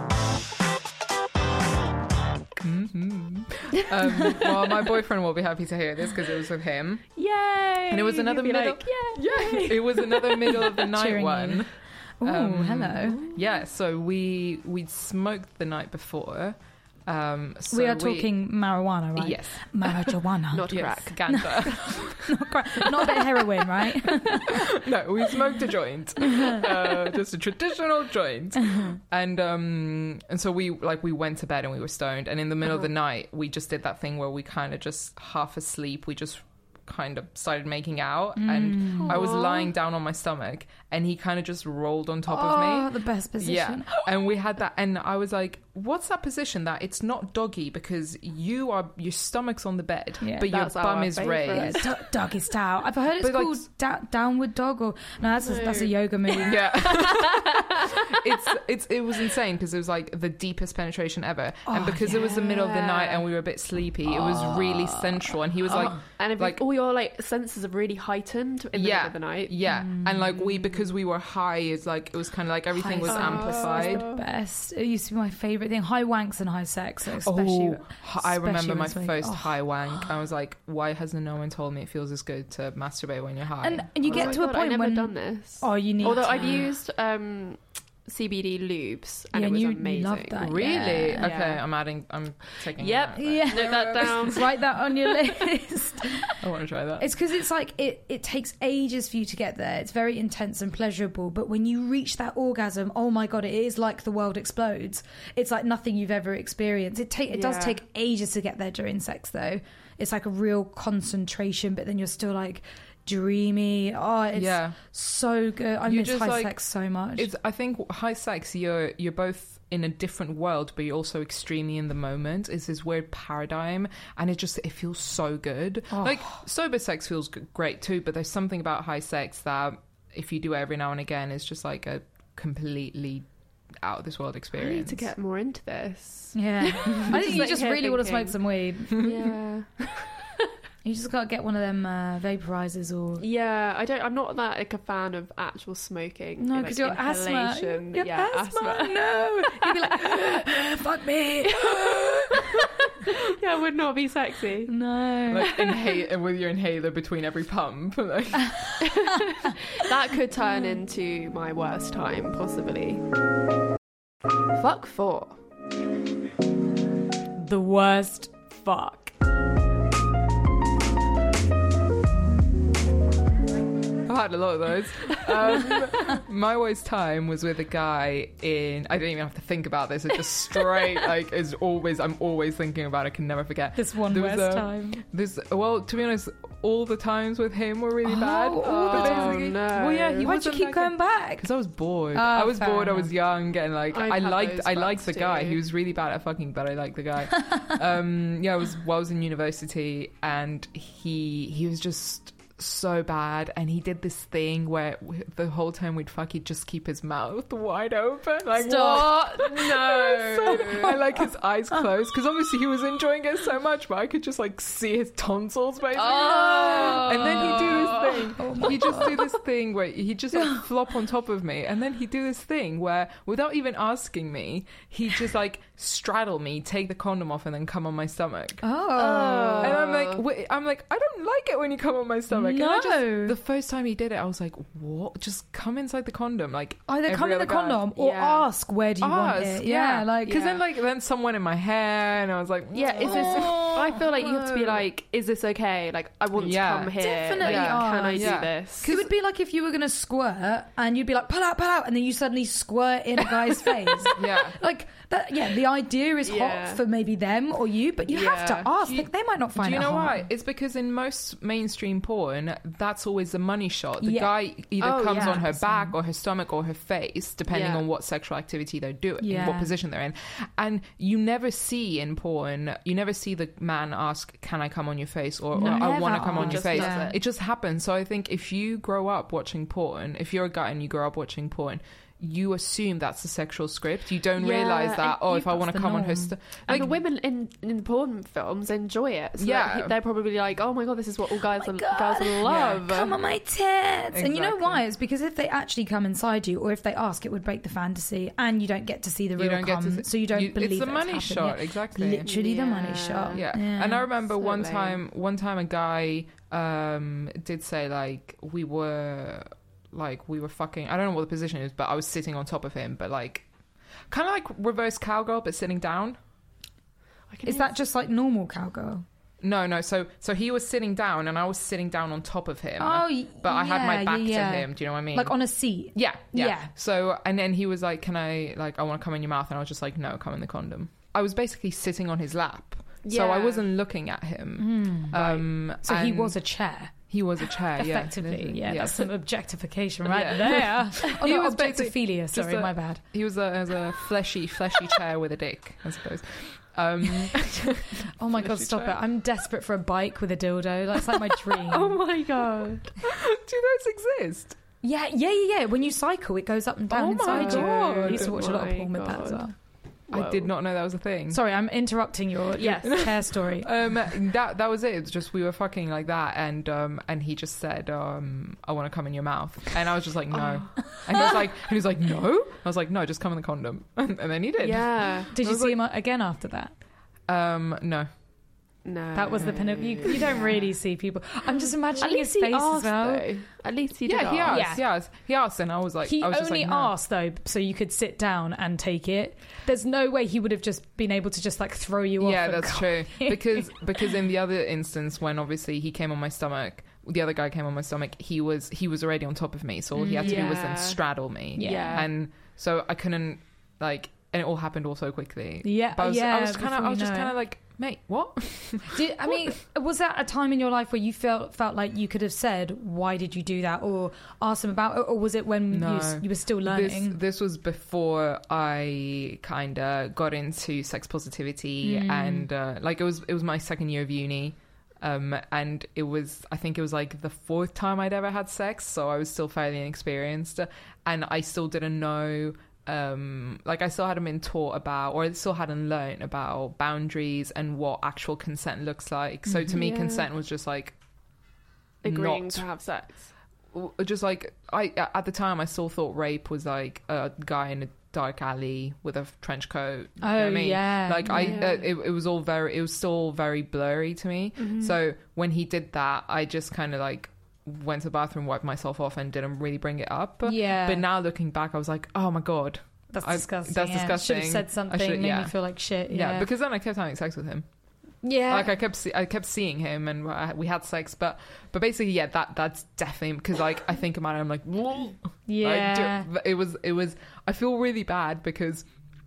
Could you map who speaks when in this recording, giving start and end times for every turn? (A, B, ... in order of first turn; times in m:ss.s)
0:02.6-0:07.1 A
0:07.2-0:10.7 B
0:07.9-0:18.3 A
0:10.8-0:13.3 C
0:17.7-0:24.8 C
0:19.2-0:23.2 A
0:20.5-0:21.8 B
0:24.4-0:51.8 A
0:26.2-0:26.6 C
0:38.4-0:39.2 C
0:39.0-0:39.7 B
0:42.3-0:43.9 C
0:50.2-0:50.5 C
0:50.4-0:51.9 B
0:51.4-0:56.9 C
0:53.2-0:53.6 A
0:55.4-0:57.8 B
0:56.4-1:06.6 A
1:01.7-1:02.5 C
1:02.1-1:03.2 B
1:04.1-1:09.6 B
1:08.7-1:14.0 A
1:09.6-1:10.3 C
1:12.8-1:20.1 C
1:13.0-1:14.2 B
1:17.2-1:24.4 A
1:23.6-1:26.7 C
1:24.1-1:31.6 B
1:29.3-1:31.3 C
1:30.4-1:34.4 A
1:32.7-1:35.3 B
1:33.2-1:36.4 C
1:36.4-1:37.1 A
1:37.0-1:57.3 C
1:47.3-1:47.8 B
1:54.4-1:54.8 A
1:55.9-1:56.5 A
1:57.2-2:13.3 A
2:06.0-2:06.4 C
2:13.8-2:15.1 A
2:14.6-2:18.4 B
2:16.4-2:19.2 C
2:16.9-2:17.2 A
2:19.0-2:20.3 B
2:20.8-2:23.2 C
2:23.2-2:30.5 B
2:26.4-2:33.1 C
2:31.4-2:34.8 B
2:34.7-2:35.6 C
2:35.3-2:38.8 A
2:35.4-2:35.8 B
2:38.8-2:43.0 B
2:44.5-2:45.4 B
2:47.4-2:49.1 C
2:54.0-3:48.6 A
3:03.8-3:05.0 C
3:08.0-3:09.5 C
3:08.6-3:10.3 B
3:10.2-3:11.5 C
3:12.1-3:13.1 C
3:13.9-3:15.6 B
3:28.6-3:31.2 B
3:28.6-3:29.3 C
3:30.5-3:31.0 C
3:35.9-3:39.2 B
3:36.8-3:39.1 C
3:40.4-3:40.6 C
3:48.6-3:49.8 C
3:48.9-3:50.2 B
3:49.6-3:57.8 A
3:52.3-3:53.4 C
3:56.9-4:00.4 C
3:57.9-3:58.5 B
3:59.0-4:04.8 A
4:00.2-4:00.6 B
4:02.7-4:08.9 B
4:03.0-4:04.0 C
4:06.4-4:09.1 A
4:07.0-4:20.2 C
4:14.1-4:14.6 A
4:16.2-4:16.8 B
4:18.1-4:18.7 B
4:18.8-4:46.9 A
4:24.0-4:24.4 C
4:24.8-4:25.4 B
4:25.1-4:25.9 C
4:27.5-4:27.8 B
4:29.2-4:29.7 C
4:35.5-4:37.1 C
4:35.6-4:37.2 B
4:44.4-4:45.2 B
4:45.0-4:46.9 C
4:46.7-4:53.2 B
4:49.4-4:49.9 A
4:51.5-5:04.1 C
4:52.5-4:52.8 A
4:54.1-4:54.8 A
4:59.4-5:02.3 A
5:02.2-5:03.4 B
5:03.3-5:13.4 A
5:04.4-5:05.0 B
5:14.1-5:16.2 A
5:17.3-5:17.7 B
5:17.4-5:19.0 C
5:19.4-5:25.4 A
5:22.8-5:26.7 C
5:25.9-5:36.4 A
5:33.0-5:33.6 B
5:34.6-5:43.0 C
5:37.1-5:39.1 A
5:40.1-5:48.9 A
5:48.0-5:52.0 C
5:51.6-5:52.9 B
5:53.0-5:54.6 A
5:54.8-5:59.5 C
5:56.9-5:58.4 A
5:57.2-5:59.4 B
6:00.1-6:00.5 B
6:00.1-6:01.4 A
6:01.3-6:03.7 C
6:02.5-6:03.1 B
6:02.8-6:15.8 A
6:10.3-6:11.2 B
6:14.6-6:15.3 B
6:15.4-6:16.7 C
6:17.3-6:18.1 A
6:18.8-6:20.7 B
6:19.1-6:23.3 C
6:22.0-6:24.7 B
6:24.0-6:26.9 A
6:24.5-6:24.8 C
6:26.0-6:33.7 C
6:32.2-6:49.5 A
6:40.0-6:40.6 C
6:40.2-6:41.0 B
6:41.6-6:42.1 C
6:41.6-6:42.1 B
6:45.6-6:47.4 C
6:48.9-6:57.2 C
6:55.7-7:21.0 A
7:01.8-7:02.5 C
7:19.7-7:20.3 B
7:22.0-7:23.3 B
7:22.0-7:22.7 A
7:23.7-7:45.5 A
7:30.2-7:31.6 C
7:31.2-7:31.8 B
7:34.6-7:35.0 B
7:40.4-7:41.0 C
7:43.1-7:46.5 C
7:46.1-7:47.6 A
7:48.2-7:48.7 C
7:48.5-7:58.9 A
7:55.5-7:56.3 C